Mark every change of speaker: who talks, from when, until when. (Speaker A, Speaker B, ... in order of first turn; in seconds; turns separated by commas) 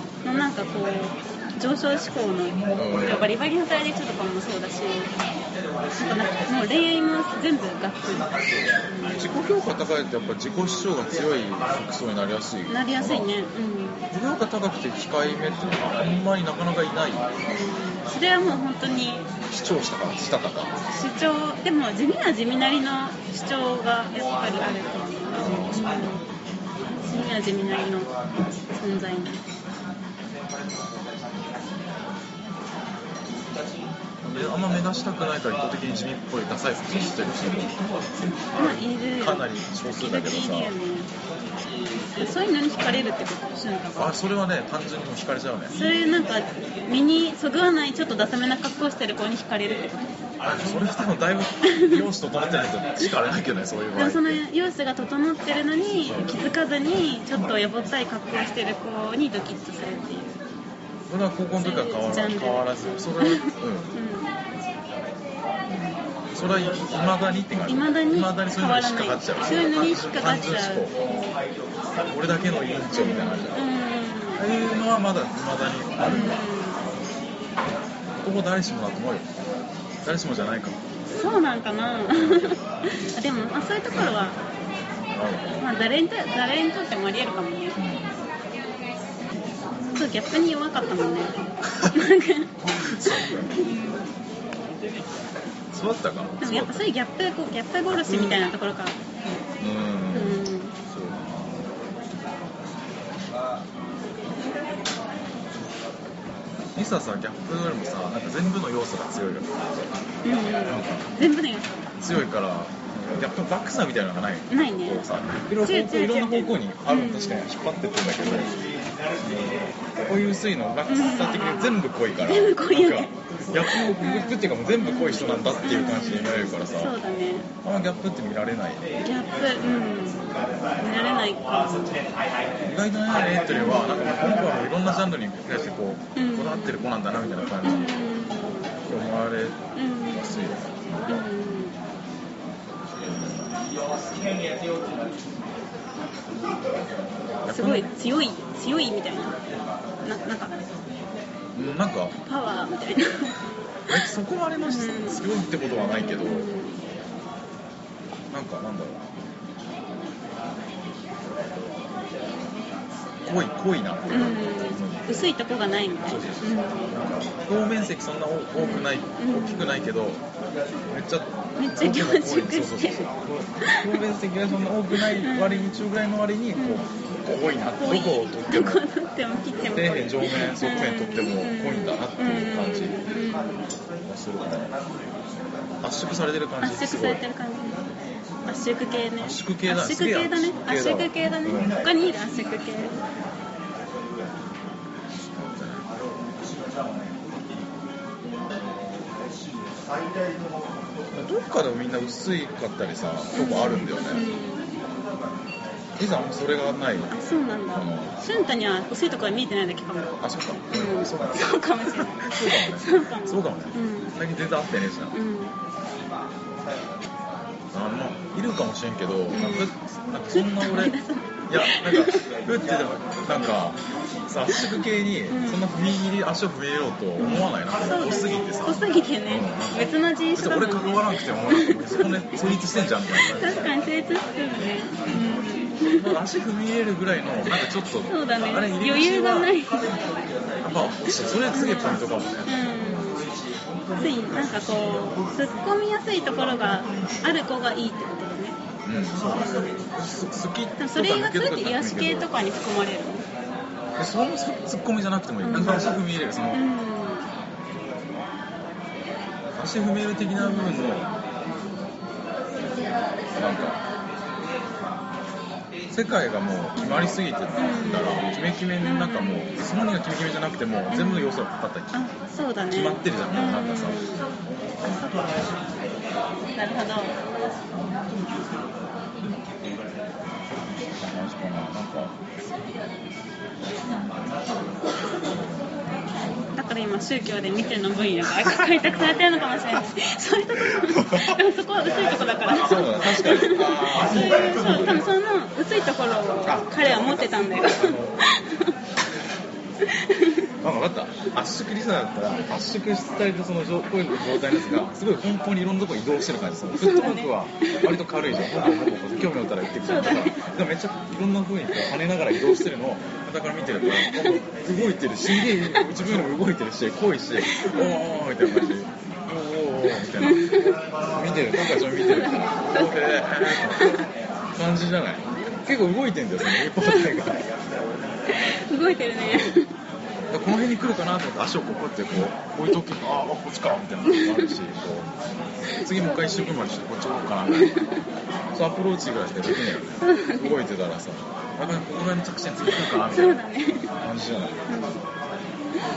Speaker A: 0.2-5.1, Speaker B: 2.7-3.4, Speaker A: 6.0-9.3, Speaker B: 9.1-13.3, Speaker A: 12.7-14.1, Speaker B: 14.1-17.2, Speaker A: 17.5-19.3, Speaker B: 19.5-20.8, Speaker A: 20.9-26.2, Speaker B: 25.4-26.1, Speaker A: 26.9-28.1, Speaker A: 28.7-29.4, Speaker B: 34.2-37.8, Speaker B: 38.5-40.7, Speaker A: 38.5-41.1, Speaker A: 42.1-44.1, Speaker B: 44.0-45.8, Speaker A: 45.7-50.1, Speaker B: 50.4-54.4, Speaker A: 51.6-52.0, Speaker A: 53.9-60.4, Speaker B: 56.0-56.4, Speaker B: 61.1-63.9, Speaker A: 61.5-64.3, Speaker B: 66.3-71.0, Speaker A: 67.6-71.4, Speaker B: 72.1-73.7, Speaker A: 72.9-74.4, Speaker B: 74.4-76.4, Speaker A: 76.0-76.9, Speaker B: 78.2-79.3, Speaker B: 80.0-80.8, Speaker A: 81.1-84.4, Speaker B: 82.1-82.6, Speaker B: 83.9-84.2, Speaker B: 85.1-85.7, Speaker A: 85.6-87.8, Speaker B: 87.8-88.2, Speaker A: 89.9-94.0, Speaker B: 92.9-93.8, Speaker B: 95.7-96.9, Speaker A: 96.4-99.0, Speaker B: 97.9-98.4, Speaker B: 99.6-101.6, Speaker A: 100.1-100.7, Speaker B: 106.7-109.7, Speaker A: 110.2-111.9, Speaker B: 110.6-111.1, Speaker B: 112.0-118.5, Speaker A: 114.5-115.1, Speaker A: 115.6-117.5, Speaker A: 118.2-118.8, Speaker B: 119.2-126.9, Speaker A: 120.9-127.5, Speaker B: 127.6-128.9, Speaker A: 129.0-132.0, Speaker B: 132.6-138.0, Speaker A: 133.6-133.8, Speaker A: 136.1-136.9, Speaker A: 137.6-138.7, Speaker B: 138.8-141.2, Speaker A: 139.7-140.5, Speaker A: 141.1-141.8, Speaker B: 143.0-144.3, Speaker B: 147.4-147.9, Speaker A: 147.5-149.4, Speaker A: 150.0-150.6, Speaker B: 151.5-152.2, Speaker A: 152.2-154.0, Speaker B: 153.9-156.5, Speaker A: 154.6-155.2, Speaker A: 155.8-156.8, Speaker B: 158.3-159.1, Speaker B: 163.2-165.3, Speaker A: 164.1-166.9, Speaker B: 166.1-170.2, Speaker A: 168.6-169.7, Speaker B: 170.9-178.8, Speaker A: 171.6-174.0, Speaker A: 174.9-175.9, Speaker A: 176.6-177.1, Speaker A: 177.8-183.7, Speaker B: 179.7-183.0, Speaker B: 184.0-184.8, Speaker B: 185.8-187.2, Speaker A: 186.6-187.9, Speaker A: 188.4-192.9, Speaker B: 189.2-191.8, Speaker B: 195.2-195.8, Speaker B: 201.1-204.2, Speaker A: 203.3-204.7, Speaker B: 206.0-207.1, Speaker A: 207.1-214.2, Speaker B: 207.7-208.2, Speaker B: 210.2-215.1, Speaker A: 215.1-215.6, Speaker B: 217.7-220.9, Speaker A: 219.3-219.7, Speaker A: 220.3-222.3, Speaker B: 221.5-233.7, Speaker A: 224.5-225.7, Speaker A: 227.2-232.3, Speaker A: 233.2-236.1, Speaker B: 236.0-239.6, Speaker A: 238.1-239.9, Speaker B: 240.6-243.1, Speaker A: 241.5-243.3, Speaker A: 243.9-248.6, Speaker B: 248.8-252.4, Speaker A: 249.3-249.9, Speaker A: 250.8-253.3, Speaker B: 254.0-256.6, Speaker A: 255.4-257.3, Speaker B: 259.6-261.1, Speaker A: 260.4-260.8, Speaker B: 263.3-263.8, Speaker B: 265.9-272.0, Speaker A: 266.8-269.6, Speaker A: 270.9-274.3, Speaker B: 272.7-274.0, Speaker B: 274.8-275.1, Speaker A: 276.6-277.1, Speaker B: 277.7-278.1, Speaker B: 280.9-282.1, Speaker A: 286.5-298.7, Speaker B: 290.7-291.4, Speaker B: 292.5-295.1, Speaker B: 296.4-297.0, Speaker B: 297.7-298.4, Speaker A: 299.8-300.5, Speaker B: 300.6-320.5, Speaker A: 304.4-304.8, Speaker A: 306.7-307.9, Speaker A: 309.8-310.5, Speaker A: 312.4-312.6, Speaker A: 313.8-314.4, Speaker A: 315.2-315.9, Speaker A: 317.4-318.8, Speaker A: 320.2-320.8, Speaker B: 321.1-327.4, Speaker A: 321.6-324.1, Speaker A: 326.4-327.3, Speaker A: 328.2-329.7, Speaker B: 329.2-329.6, Speaker B: 330.3-335.1, Speaker A: 334.1-334.5, Speaker A: 335.7-336.5, Speaker B: 335.8-337.8, Speaker A: 337.5-338.1, Speaker B: 338.5-343.4, Speaker A: 339.6-340.6, Speaker A: 342.6-343.9, Speaker B: 344.0-344.6, Speaker A: 344.7-345.0